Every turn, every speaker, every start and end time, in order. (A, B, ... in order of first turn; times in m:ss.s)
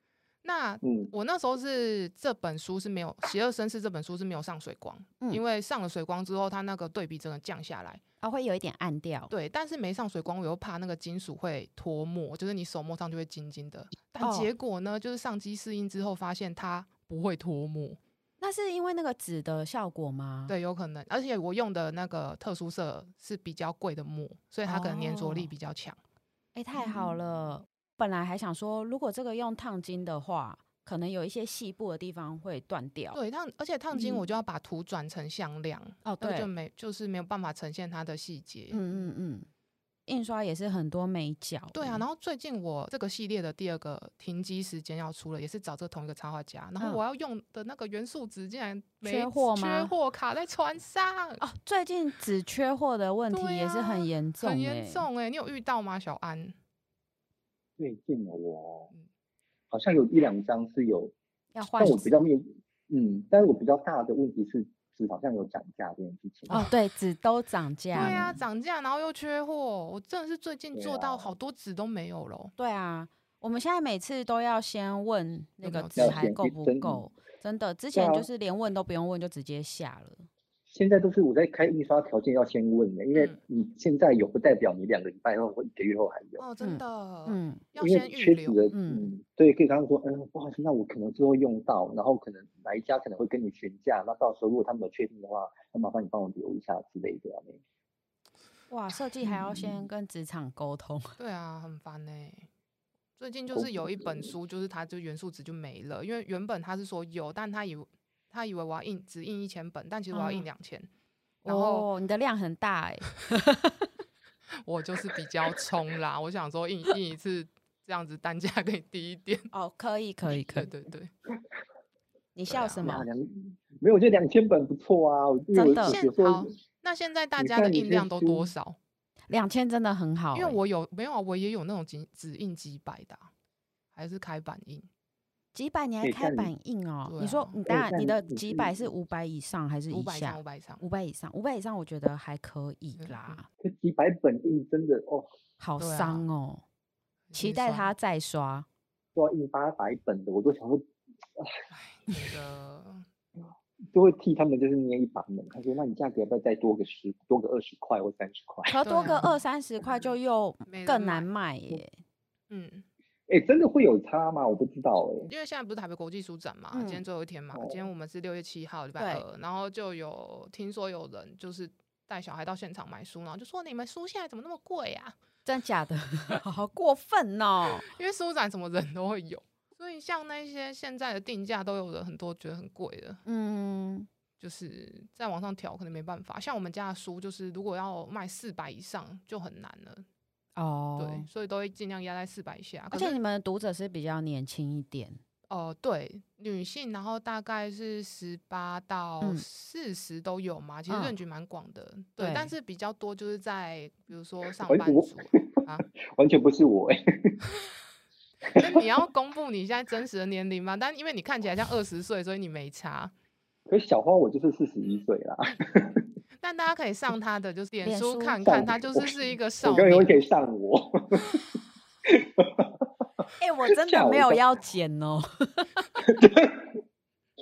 0:00.4-0:08.0 A
0:00.8-0:01.1 B
0:08.2-0:09.3 C
0:09.3-0:18.0 A
0:14.2-0:14.5 C
0:18.4-0:20.5 C
0:20.5-0:26.0 A
0:24.7-0:25.5 C
0:26.6-0:33.2 C
0:26.9-0:27.1 B
0:33.1-0:38.9 A
0:36.0-0:36.5 C
0:38.7-0:39.5 C
0:40.1-0:42.0 C
0:41.7-0:51.4 A
0:49.0-0:49.9 C
0:51.4-0:55.1 C
0:53.3-0:56.6 A
0:57.8-0:58.9 B
0:59.7-1:06.7 B
1:01.5-1:02.2 C
1:06.5-1:08.4 C
1:08.0-1:12.5 A
1:08.0-1:08.3 B
1:10.7-1:11.4 B
1:12.6-1:20.3 C
1:15.6-1:16.3 A
1:16.0-1:17.0 B
1:17.9-1:18.3 B
1:20.7-1:26.4 B
1:23.1-1:23.4 A
1:26.4-1:28.7 A
1:26.6-1:27.6 C
1:27.8-1:37.6 B
1:28.7-1:29.1 C
1:38.7-1:41.2 C
1:39.3-1:39.6 B
1:41.2-1:42.5 A
1:43.2-1:50.9 A
1:43.5-1:44.3 B
1:50.1-1:50.5 C
1:51.4-1:51.9 A
1:51.4-1:53.9 C
1:54.7-1:59.5 A
1:59.5-2:00.7 C
2:00.4-2:01.1 A
2:02.4-2:03.1 C
2:02.5-2:03.0 A
2:02.8-2:06.5 B
2:05.5-2:06.0 C
2:05.8-2:08.8 A
2:07.4-2:08.5 B
2:09.3-2:10.6 C
2:10.3-2:13.3 A
2:13.9-2:14.9 A
2:15.5-2:23.5 C
2:16.0-2:16.5 B
2:17.1-2:17.6 A
2:17.7-2:18.9 B
2:19.9-2:20.8 A
2:23.0-2:23.4 A
2:23.6-2:25.3 B
2:25.6-2:26.6 C
2:25.8-2:26.2 A
2:27.3-2:27.9 A
2:27.3-2:28.7 C
2:29.2-2:31.6 B
2:31.7-2:33.0 A
2:33.9-2:39.3 B
2:38.7-2:41.9 C
2:38.8-2:39.3 A
2:40.7-2:41.3 A
2:42.5-2:42.8 A
2:43.3-2:45.3 B
2:45.3-2:55.2 A
2:46.7-2:47.0 C
2:47.5-2:47.9 B
2:49.0-2:49.2 C
2:55.4-2:57.9 C
2:57.8-3:03.2 A
3:03.3-3:04.1 C
3:04.4-3:10.1 A
3:10.6-3:11.3 C
3:11.0-3:13.2 A
3:12.9-3:15.2 C
3:15.5-3:25.9 A
3:20.9-3:21.1 C
3:22.2-3:22.5 C
3:24.6-3:27.4 B
3:28.5-3:28.9 B
3:28.5-3:33.1 A
3:33.7-3:36.1 B
3:36.4-3:40.2 A
3:37.8-3:38.4 C
3:38.4-3:41.4 B
3:42.0-3:42.8 B
3:43.4-3:45.7 C
3:43.7-3:44.5 B
3:46.0-3:46.8 B